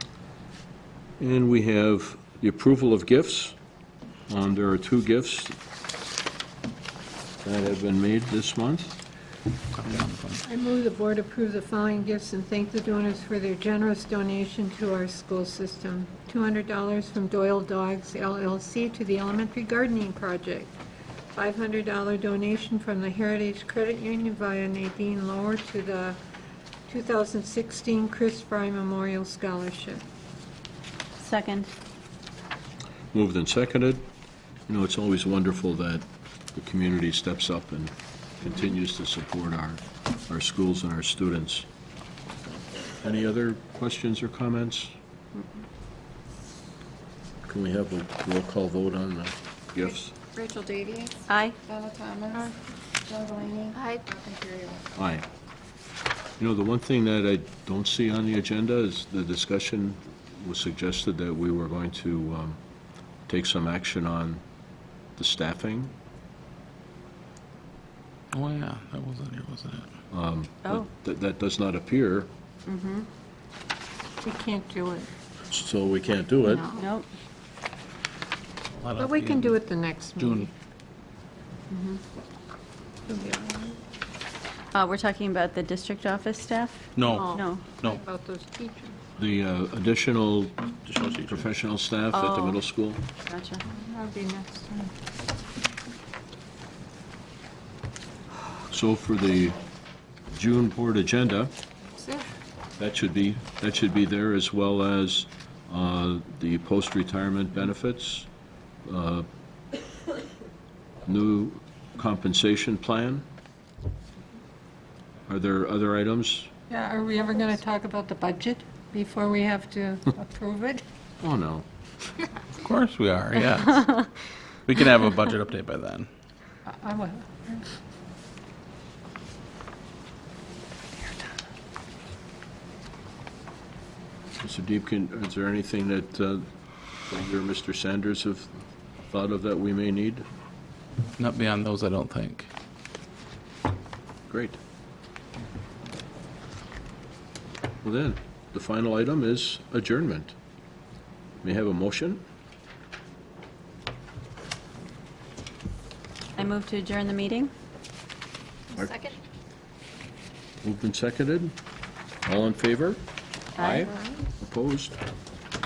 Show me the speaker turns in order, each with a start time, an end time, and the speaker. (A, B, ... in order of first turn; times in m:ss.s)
0:01.2-0:03.6 A
0:04.3-0:05.5 A
0:07.4-0:08.9 A
0:09.8-0:10.4 B
0:10.4-0:20.7 C
0:21.3-0:26.2 C
0:26.9-0:30.0 C
0:31.2-0:31.7 D
0:33.1-0:34.0 A
0:34.7-0:41.7 A
0:43.0-0:44.9 A
0:47.4-0:50.1 A
0:49.8-0:52.5 E
0:51.3-0:51.6 D
0:53.0-0:55.0 E
0:55.0-0:55.3 A
0:56.4-1:02.6 A
1:03.3-1:04.4 A
1:05.2-1:05.9 A
1:08.3-1:09.9 B
1:10.1-1:12.3 A
1:12.7-1:13.1 D
1:14.2-1:15.1 C
1:15.5-1:16.6 A
1:16.4-1:16.9 C
1:16.7-1:17.1 D
1:18.7-1:19.6 B
1:19.0-1:20.5 C
1:20.2-1:20.5 B
1:21.7-1:22.0 D
1:23.1-1:23.8 C
1:24.7-1:27.6 D
1:27.0-1:28.0 B
1:27.1-1:29.0 C
1:29.2-1:33.0 A
1:30.9-1:31.3 B
1:32.1-1:32.6 D
1:33.3-1:33.6 D
1:33.7-1:34.9 C
1:38.7-1:39.6 A
1:40.3-1:41.5 A
1:41.9-1:42.3 C
1:42.8-1:48.3 A
1:48.8-1:49.3 A
1:51.1-1:53.3 A
1:55.3-1:56.5 A
1:56.7-2:00.8 C
2:01.2-2:01.7 A
2:02.6-2:04.1 B
2:04.7-2:06.1 B
2:06.7-2:07.7 C
2:14.4-2:16.5 A
2:17.1-2:18.5 A
2:19.1-2:20.2 A
2:21.2-2:22.5 B
2:24.3-2:24.6 A
2:27.8-2:30.3 A
2:31.4-2:32.2 A
2:36.4-2:37.5 D
2:38.7-2:39.1 A
2:40.6-2:41.5 A
2:42.2-2:43.0 A
2:43.6-2:45.0 A
2:43.6-2:43.9 D